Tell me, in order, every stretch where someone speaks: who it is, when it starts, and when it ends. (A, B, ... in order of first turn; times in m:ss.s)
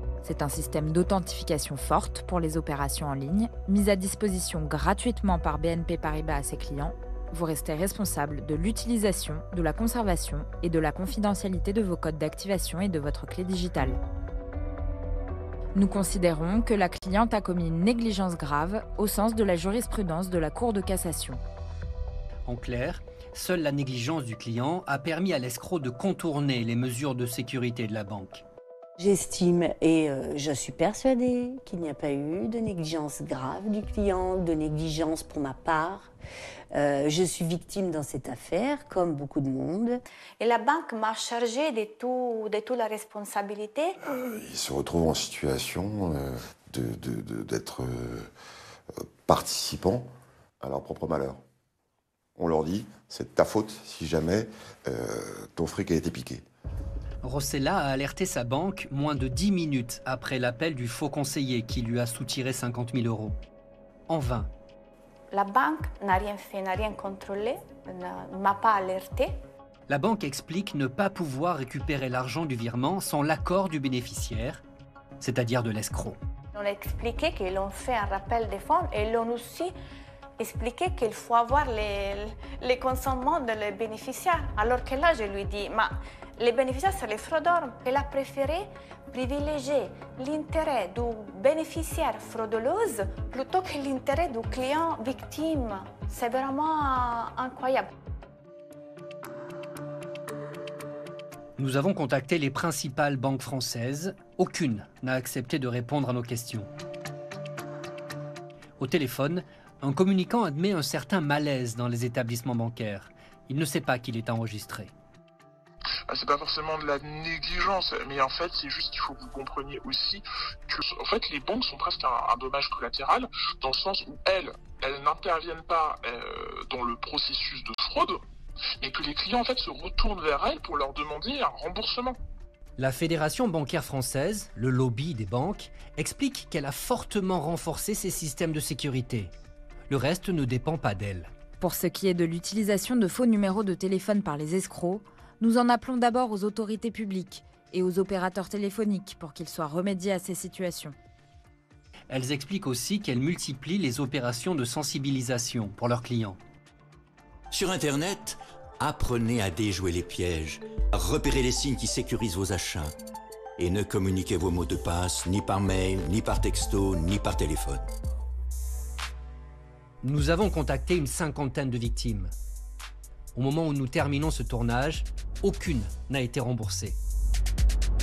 0:00.2-0:14.0 A
0:15.7-0:21.4 A
0:22.4-0:28.4 B
0:29.0-0:36.1 C
0:36.7-0:40.0 C
0:40.4-0:44.0 D
0:44.0-0:48.3 E
0:49.0-0:50.1 E
0:50.6-0:51.4 E
0:52.4-0:56.4 E
0:57.2-1:03.4 B
1:04.1-1:04.5 B
1:05.3-1:09.4 D
1:09.9-1:14.6 B
1:15.2-1:16.2 B
1:16.5-1:19.7 D
1:20.4-1:37.9 D
1:41.6-1:46.7 B
1:48.8-1:54.9 B
1:56.1-2:08.2 F
2:08.8-2:12.2 F
2:12.8-2:19.3 B
2:19.9-2:21.3 B
2:21.6-2:31.0 A
2:32.1-2:36.4 B
2:37.5-2:42.9 G
2:43.6-2:47.9 G
2:50.0-2:52.3 B
2:53.3-2:57.0 B